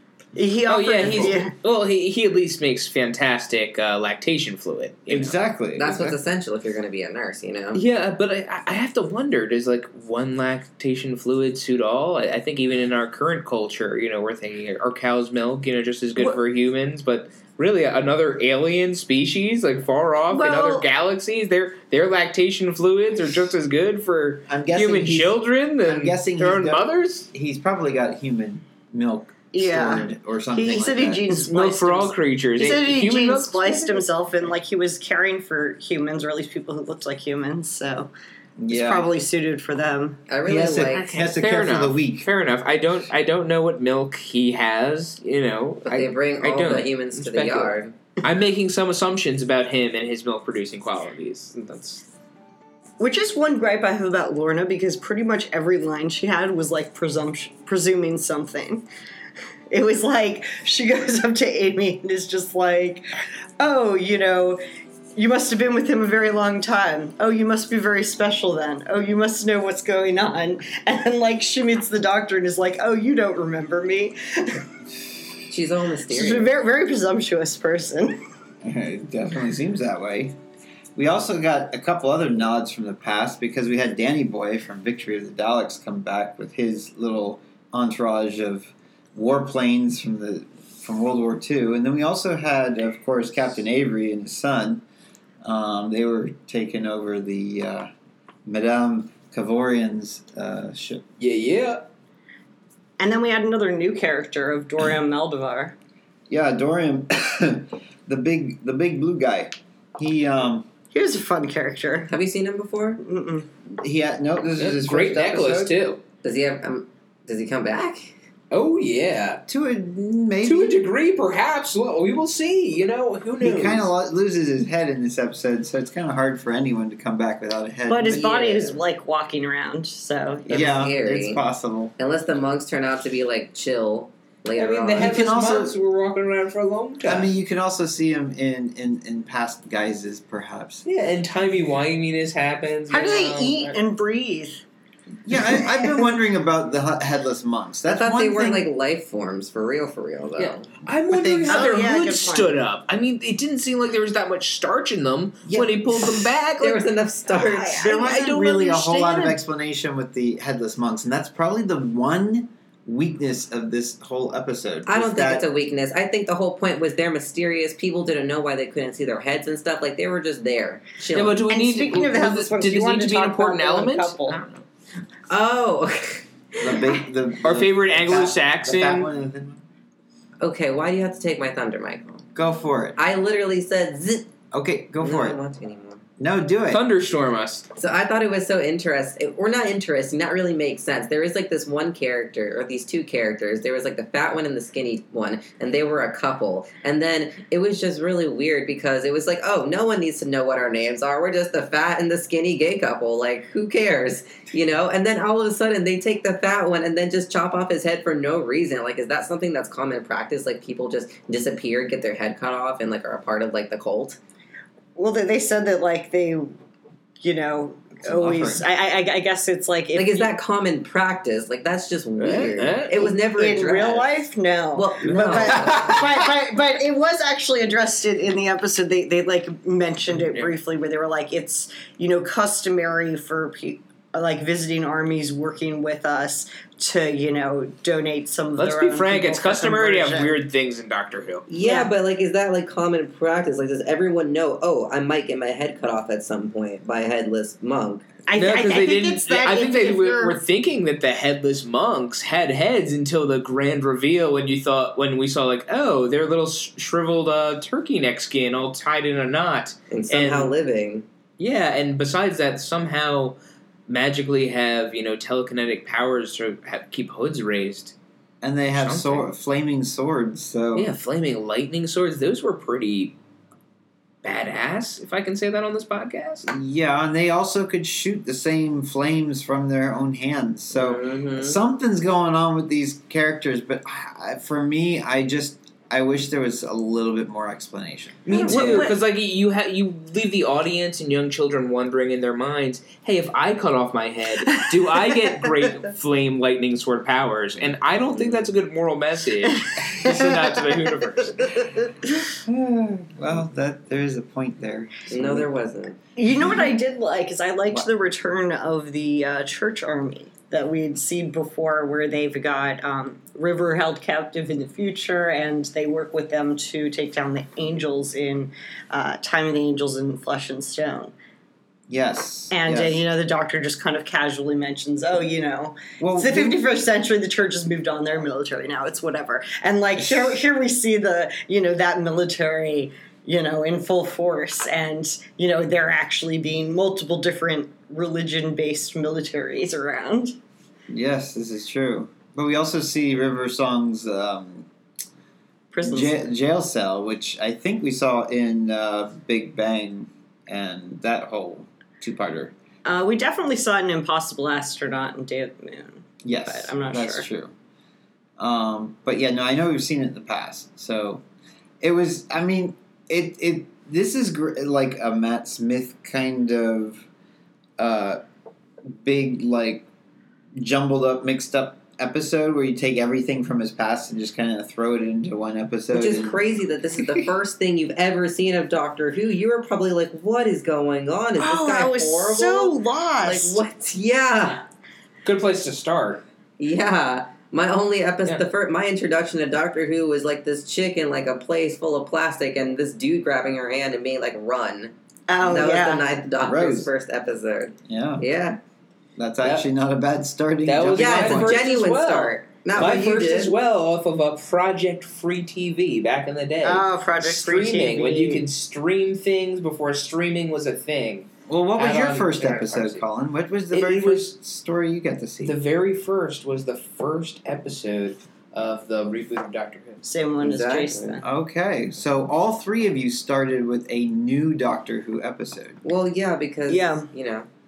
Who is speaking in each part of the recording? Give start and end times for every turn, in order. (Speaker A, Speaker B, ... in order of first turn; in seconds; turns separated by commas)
Speaker A: 0.3-1.5, Speaker B: 0.7-5.3, Speaker C: 5.1-6.2, Speaker D: 5.8-7.8, Speaker B: 7.7-27.3, Speaker A: 20.3-20.9, Speaker C: 24.5-31.2, Speaker A: 29.5-38.1, Speaker B: 31.3-34.0, Speaker C: 38.6-39.1, Speaker A: 38.7-40.2, Speaker D: 40.3-41.1, Speaker C: 40.4-42.3, Speaker B: 40.9-52.0, Speaker D: 45.8-48.0, Speaker A: 53.0-58.8, Speaker A: 59.7-63.0, Speaker A: 63.6-64.6, Speaker A: 65.1-74.6, Speaker D: 75.5-76.5, Speaker A: 76.1-78.2, Speaker C: 78.6-80.3, Speaker C: 81.0-94.8, Speaker C: 95.4-97.9, Speaker C: 98.5-101.0, Speaker B: 101.2-101.8, Speaker A: 103.0-105.7, Speaker C: 106.3-110.7, Speaker A: 110.9-112.1, Speaker D: 112.1-113.0, Speaker A: 113.0-113.5, Speaker C: 113.7-115.8, Speaker B: 114.6-116.0, Speaker D: 116.2-118.1, Speaker B: 118.5-119.4, Speaker C: 119.5-120.8, Speaker B: 120.4-123.9, Speaker C: 123.4-128.4, Speaker A: 127.9-130.6, Speaker D: 128.1-128.8, Speaker D: 130.5-131.4, Speaker C: 130.5-131.9, Speaker D: 132.0-135.2, Speaker B: 134.5-137.3, Speaker C: 134.9-135.7, Speaker C: 137.0-140.8, Speaker B: 140.8-143.8, Speaker A: 142.9-144.6, Speaker C: 145.2-148.7, Speaker D: 147.9-150.7, Speaker B: 150.4-156.9, Speaker C: 151.1-151.7, Speaker A: 151.4-152.6, Speaker D: 156.6-157.9, Speaker C: 157.6-165.5, Speaker B: 157.8-159.4, Speaker D: 164.8-171.4, Speaker B: 171.1-174.6, Speaker A: 171.5-174.4, Speaker D: 175.3-177.0, Speaker C: 176.6-179.6, Speaker B: 177.4-179.1, Speaker D: 180.4-182.2, Speaker C: 182.3-183.0, Speaker D: 182.9-184.3, Speaker C: 184.5-185.4, Speaker D: 185.0-186.0, Speaker C: 186.2-186.8, Speaker B: 186.7-187.7, Speaker D: 187.8-214.2, Speaker A: 214.9-216.5, Speaker A: 217.2-220.3, Speaker C: 218.0-218.6, Speaker D: 219.9-224.1, Speaker B: 222.2-223.1, Speaker A: 223.0-240.4, Speaker D: 224.7-226.1, Speaker B: 225.3-226.0, Speaker B: 230.2-230.5, Speaker B: 238.6-241.4, Speaker D: 241.5-248.1, Speaker A: 241.6-241.9, Speaker A: 248.3-250.4, Speaker B: 248.3-260.5, Speaker D: 259.9-261.0, Speaker B: 261.4-263.4, Speaker B: 263.9-267.9, Speaker C: 268.4-270.9, Speaker B: 268.7-269.3, Speaker B: 270.7-273.1, Speaker B: 274.2-276.5, Speaker C: 276.4-288.9, Speaker D: 280.7-281.6, Speaker B: 288.2-301.7, Speaker D: 288.3-288.9, Speaker A: 288.4-288.9, Speaker D: 298.1-298.4, Speaker C: 302.3-305.5, Speaker D: 305.1-306.0, Speaker A: 306.1-321.1, Speaker C: 321.9-323.0, Speaker A: 322.5-340.4, Speaker C: 326.0-326.6, Speaker C: 340.9-344.7, Speaker A: 345.7-346.2, Speaker C: 345.8-352.5, Speaker A: 352.8-357.2, Speaker C: 356.2-357.5, Speaker C: 358.4-361.2, Speaker C: 361.8-367.1, Speaker C: 367.8-368.2, Speaker C: 368.9-369.8, Speaker C: 370.6-377.2, Speaker D: 375.9-384.6, Speaker A: 381.4-383.6, Speaker B: 385.2-386.2, Speaker D: 386.6-398.6, Speaker A: 395.3-396.1, Speaker C: 396.4-396.9, Speaker C: 397.9-398.2, Speaker C: 399.2-401.6, Speaker B: 400.6-413.0, Speaker D: 400.9-403.5, Speaker A: 406.6-408.4, Speaker C: 411.5-415.6, Speaker B: 413.7-414.3, Speaker B: 415.4-420.0, Speaker A: 420.0-421.2, Speaker D: 420.4-421.2, Speaker C: 421.2-425.8, Speaker D: 425.8-427.5, Speaker A: 426.7-427.1